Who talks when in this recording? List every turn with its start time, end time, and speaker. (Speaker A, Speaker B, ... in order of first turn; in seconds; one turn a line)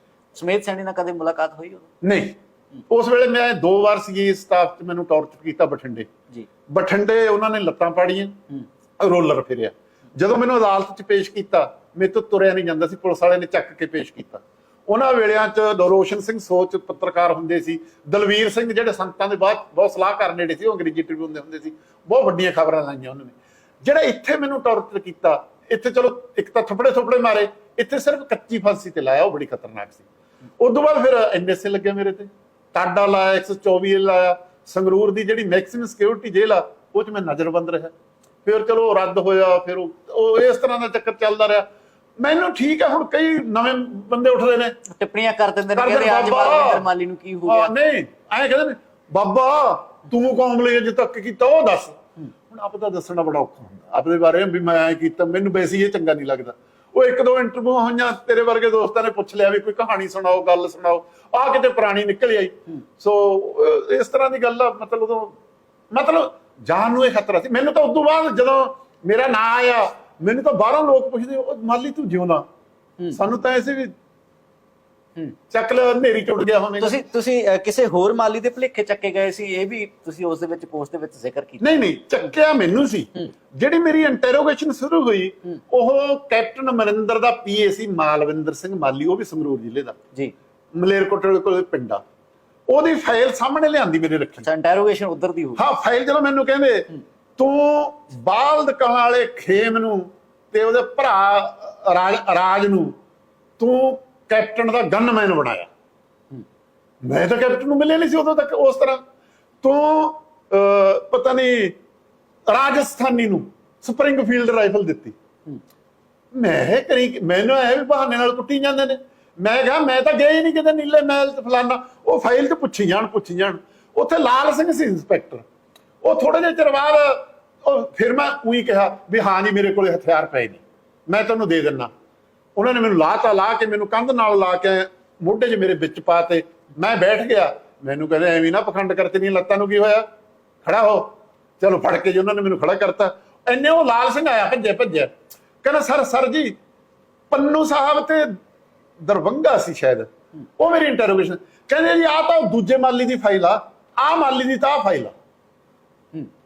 Speaker A: 0.3-1.9
Speaker B: 2.0-2.4
Speaker B: 2.9-6.1
Speaker B: 6.7-8.3
Speaker B: 9.0-30.0
Speaker B: 30.6-37.9
Speaker B: 38.4-41.6
Speaker B: 42.2-44.8
Speaker A: 44.9-47.7
Speaker B: 45.7-46.8
Speaker B: 47.5-52.0
Speaker B: 52.5-65.3
Speaker B: 65.9-72.4
Speaker B: 73.1-73.9
Speaker B: 75.5-77.0
Speaker A: 76.8-81.6
Speaker B: 81.6-90.0
Speaker B: 90.7-92.0
Speaker B: 92.7-94.5
Speaker A: 94.4-95.6
Speaker B: 95.5-102.9
Speaker B: 103.6-105.7
Speaker B: 107.0-109.0
Speaker B: 109.6-111.7
Speaker B: 112.5-115.1
Speaker B: 116.3-125.4
Speaker B: 126.0-131.9
Speaker B: 132.6-140.0
Speaker B: 140.6-145.1
Speaker B: 145.6-146.5
Speaker B: 147.3-148.4
Speaker B: 149.0-155.1